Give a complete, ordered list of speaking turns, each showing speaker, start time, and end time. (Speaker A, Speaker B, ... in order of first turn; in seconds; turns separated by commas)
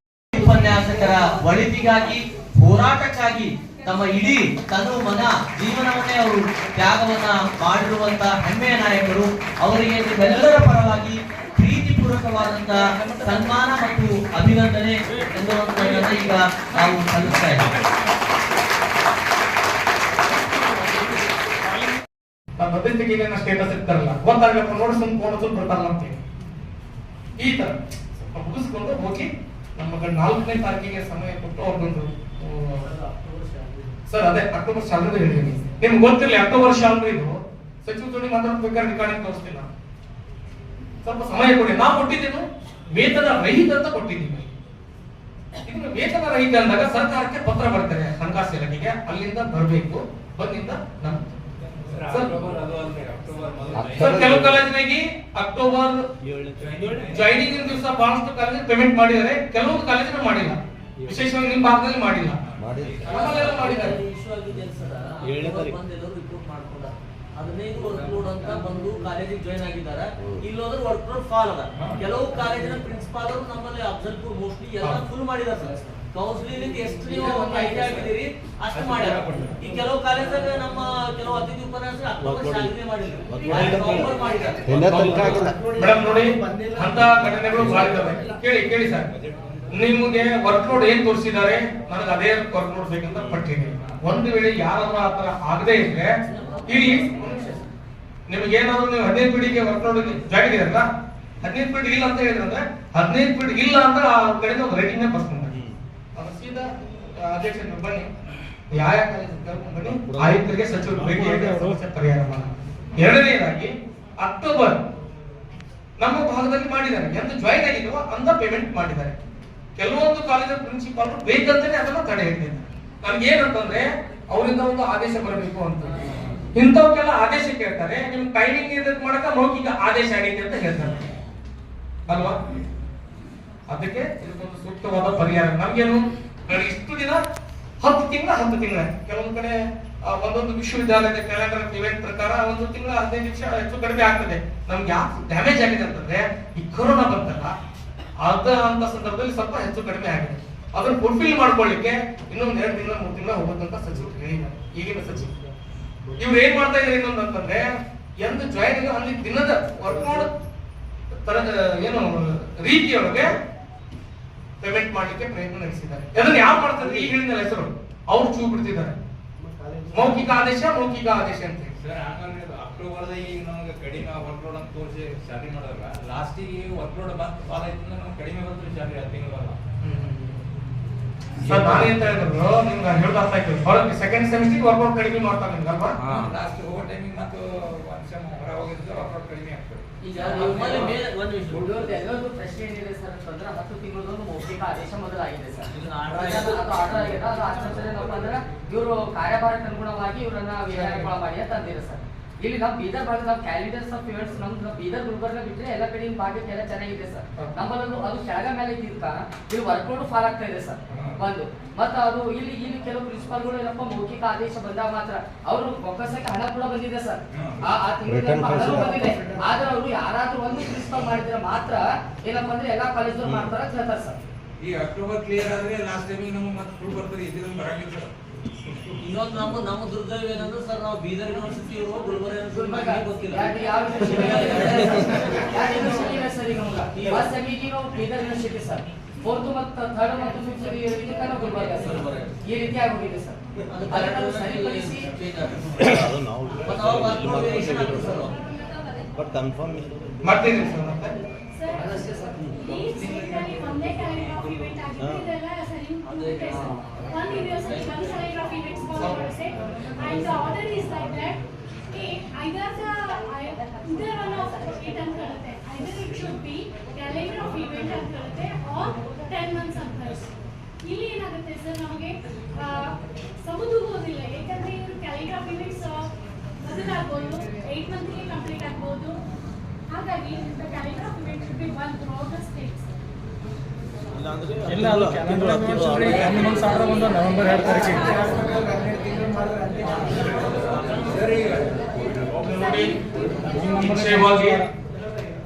Speaker A: 0.3-17.7, Speaker B: 22.6-26.2, Speaker B: 27.4-32.9, Speaker C: 33.1-33.6, Speaker B: 34.1-37.3, Speaker B: 37.9-39.7, Speaker B: 41.0-44.5, Speaker B: 45.6-51.2, Speaker D: 51.9-54.6, Speaker B: 52.1-52.4, Speaker E: 53.8-54.3, Speaker B: 54.0-56.0, Speaker E: 56.3-57.1, Speaker D: 56.6-57.7, Speaker B: 57.1-62.4, Speaker D: 62.4-63.7, Speaker E: 62.6-63.1, Speaker B: 63.0-64.0, Speaker C: 63.1-84.8, Speaker E: 65.2-65.8, Speaker D: 71.8-72.1, Speaker F: 77.1-78.1, Speaker D: 78.7-79.7, Speaker E: 82.2-82.7, Speaker E: 83.3-84.1, Speaker D: 83.7-84.4, Speaker E: 84.7-85.5, Speaker B: 84.8-89.1, Speaker D: 87.5-87.9, Speaker D: 89.1-89.8, Speaker B: 89.7-96.1, Speaker D: 93.2-94.0, Speaker C: 96.3-97.6, Speaker B: 96.7-97.5, Speaker B: 98.3-100.9, Speaker B: 101.4-105.5, Speaker B: 106.2-106.7, Speaker B: 107.2-108.1, Speaker B: 108.7-114.8, Speaker E: 109.9-110.3, Speaker E: 111.1-111.5, Speaker B: 116.0-119.2, Speaker B: 119.8-126.0, Speaker B: 126.5-131.1, Speaker B: 132.1-132.4, Speaker B: 133.7-137.2, Speaker B: 137.8-147.6, Speaker B: 148.2-155.3, Speaker B: 156.2-157.7, Speaker B: 158.2-160.3, Speaker B: 161.2-163.3, Speaker B: 164.6-169.0, Speaker B: 169.9-171.7, Speaker D: 171.8-179.6, Speaker B: 179.8-180.4, Speaker B: 181.4-186.0, Speaker D: 181.5-182.0, Speaker D: 186.0-189.8, Speaker F: 190.0-191.0, Speaker C: 190.2-191.8, Speaker F: 191.5-224.2, Speaker C: 195.7-197.1, Speaker B: 200.7-201.1, Speaker B: 207.4-207.7, Speaker D: 210.9-211.2, Speaker D: 217.3-217.6, Speaker E: 218.1-219.0, Speaker E: 223.2-223.5, Speaker D: 224.6-228.1, Speaker C: 229.0-235.4, Speaker F: 232.5-245.2, Speaker C: 236.9-237.3, Speaker C: 241.8-242.3, Speaker C: 243.7-246.1, Speaker E: 245.8-248.3, Speaker C: 246.6-248.4, Speaker E: 249.2-250.2, Speaker B: 250.2-251.2, Speaker G: 251.6-251.9, Speaker F: 251.7-252.3, Speaker G: 252.6-261.4, Speaker C: 254.2-254.5, Speaker E: 255.0-255.3, Speaker C: 256.1-258.1, Speaker B: 259.0-259.3, Speaker G: 261.9-270.3, Speaker G: 270.9-276.1, Speaker G: 276.6-279.2, Speaker G: 279.9-282.9, Speaker E: 284.1-286.6, Speaker B: 284.8-286.2, Speaker G: 286.0-289.3, Speaker D: 290.1-292.4, Speaker B: 292.4-293.0, Speaker G: 292.5-294.3, Speaker B: 293.6-294.7